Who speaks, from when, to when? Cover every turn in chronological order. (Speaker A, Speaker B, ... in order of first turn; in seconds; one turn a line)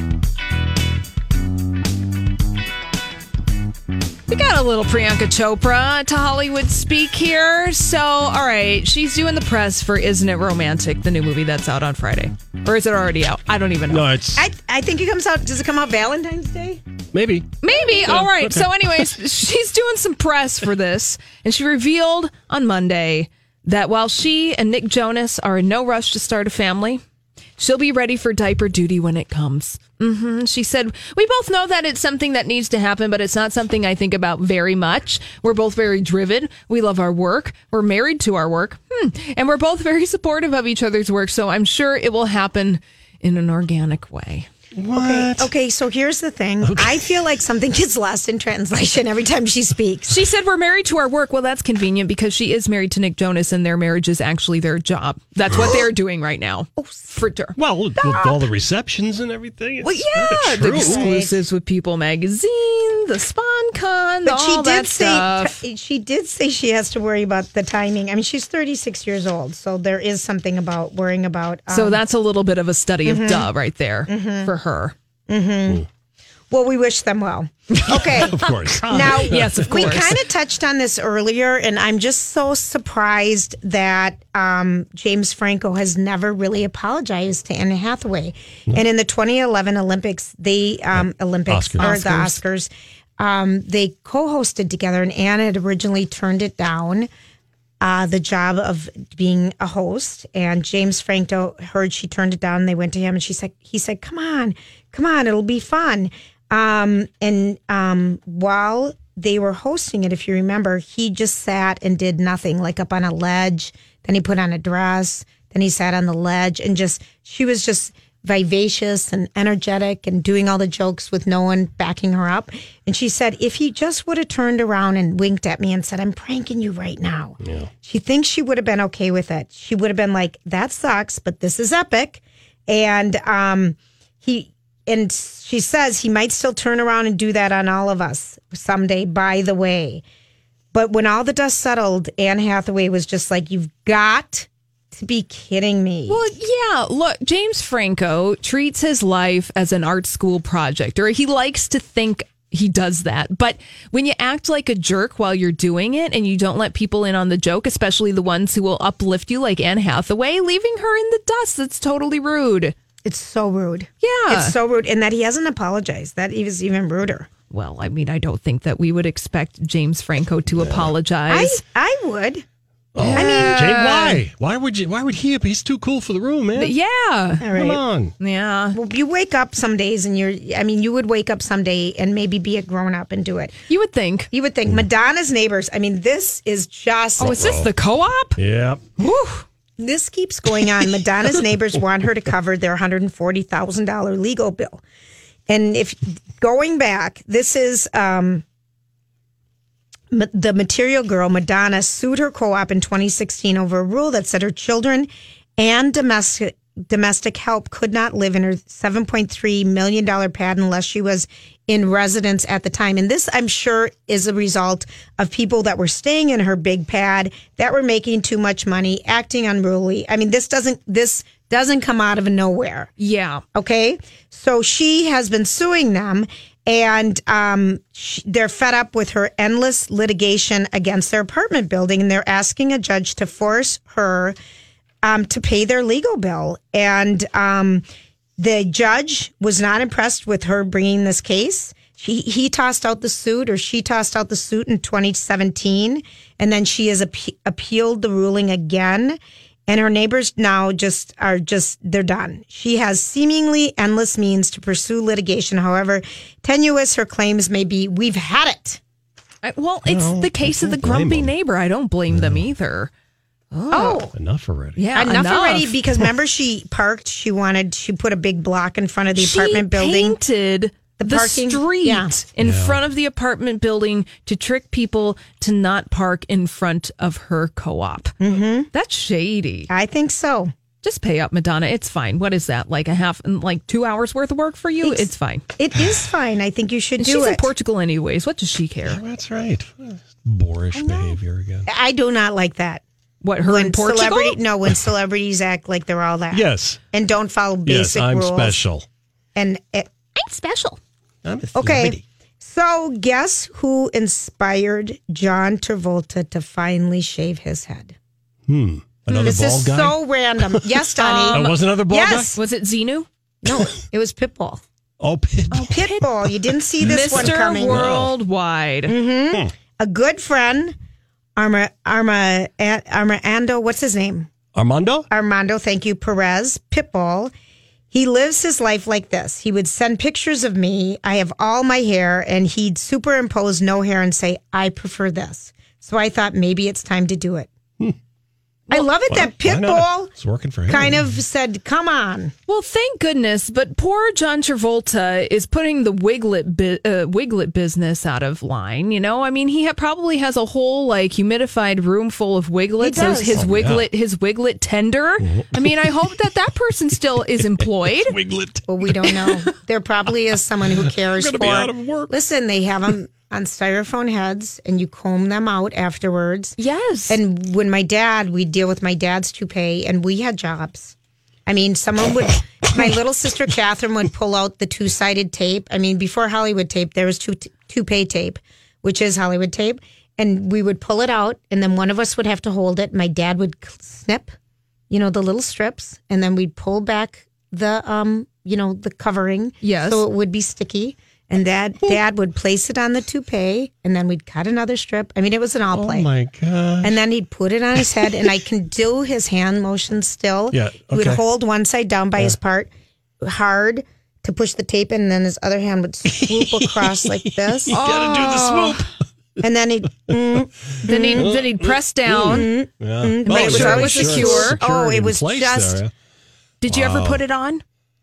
Speaker A: 4.3-14.1
Speaker B: 13.9-14.5
Speaker C: 14.3-16.8
Speaker B: 17.1-18.7
Speaker A: 17.6-27.0
Speaker A: 27.6-44.5
Speaker B: 44.8-45.5
Speaker C: 44.9-50.1
Speaker B: 46.7-47.0
Speaker A: 50.1-57.5
Speaker C: 56.8-57.1
Speaker B: 57.5-61.1
Speaker C: 58.0-58.4
Speaker A: 59.8-65.6
Speaker C: 60.8-61.4
Speaker C: 64.2-72.0
Speaker A: 71.7-74.9
Speaker C: 73.0-73.5
Speaker C: 74.1-74.5
Speaker C: 75.3-75.8
Speaker C: 76.5-97.1
Speaker A: 77.7-80.2
Speaker B: 77.9-80.1
Speaker B: 91.0-92.4
Speaker C: 97.8-140.0
Speaker B: 127.4-127.7
Speaker C: 140.7-146.2
Speaker A: 146.1-162.7
Speaker C: 163.0-167.3
Speaker A: 164.0-164.6
Speaker A: 167.5-171.6
Speaker B: 170.5-170.9
Speaker C: 171.3-172.4
Speaker B: 172.9-176.7
Speaker A: 173.0-174.2
Speaker C: 173.0-173.7
Speaker A: 176.5-177.5
Speaker C: 177.4-177.8
Speaker B: 177.5-178.1
Speaker A: 178.2-178.8
Speaker C: 178.7-183.6
Speaker A: 183.7-184.3
Speaker C: 184.3-187.4
Speaker A: 187.2-188.4
Speaker B: 187.2-187.7
Speaker B: 188.3-188.8
Speaker A: 189.0-189.4
Speaker C: 189.8-194.8
Speaker C: 195.5-198.4
Speaker C: 200.1-222.9
Speaker A: 223.0-223.4
Speaker C: 223.5-234.3
Speaker C: 235.0-237.8
Speaker C: 238.4-258.8
Speaker A: 259.4-262.9
Speaker B: 259.9-261.3
Speaker B: 262.1-262.4
Speaker A: 263.5-264.0
Speaker C: 263.7-264.1
Speaker B: 264.1-264.9
Speaker A: 264.8-266.0
Speaker C: 264.9-270.2
Speaker A: 269.1-278.1
Speaker C: 271.0-272.1
Speaker B: 272.4-272.8
Speaker C: 278.2-278.7
Speaker A: 278.7-279.7
Speaker C: 279.7-280.5
Speaker A: 280.8-285.4
Speaker C: 284.8-287.5
Speaker A: 287.0-289.0
Speaker B: 288.9-291.7
Speaker C: 290.7-292.8
Speaker A: 293.2-294.4
Speaker C: 293.4-298.6
Speaker B: 296.3-296.8
Speaker B: 297.6-298.8
Speaker C: 299.3-300.8
Speaker B: 301.2-302.0
Speaker C: 301.5-307.9
Speaker B: 308.5-310.0
Speaker A: 309.1-309.3
Speaker C: 309.1-312.4
Speaker A: 311.0-311.6
Speaker B: 311.3-312.4
Speaker A: 312.3-313.1
Speaker C: 313.4-314.6
Speaker B: 315.0-315.7
Speaker A: 315.5-316.0
Speaker C: 315.7-317.9
Speaker A: 316.8-318.9
Speaker B: 316.9-318.1
Speaker C: 318.9-320.7
Speaker C: 321.4-324.3
Speaker B: 324.5-325.1
Speaker C: 325.1-327.3
Speaker C: 327.9-337.5
Speaker C: 338.7-340.1
Speaker B: 339.1-341.1
Speaker C: 340.7-342.3
Speaker A: 342.5-358.2
Speaker C: 352.8-353.4
Speaker B: 353.0-353.9
Speaker B: 355.2-356.1
Speaker B: 357.2-359.3
Speaker C: 358.7-366.6
Speaker B: 361.1-362.1
Speaker A: 366.6-367.2
Speaker C: 367.1-370.9
Speaker C: 371.4-384.3
Speaker C: 384.9-396.1
Speaker A: 389.6-390.0
Speaker B: 395.7-397.0
Speaker C: 396.8-407.8
Speaker B: 400.5-401.2
Speaker B: 406.1-408.9
Speaker A: 407.7-408.9
Speaker C: 409.4-411.3
Speaker A: 410.8-412.5
Speaker B: 411.1-415.9
Speaker C: 412.2-415.8
Speaker A: 413.3-414.6
Speaker A: 416.6-417.6
Speaker B: 416.6-417.2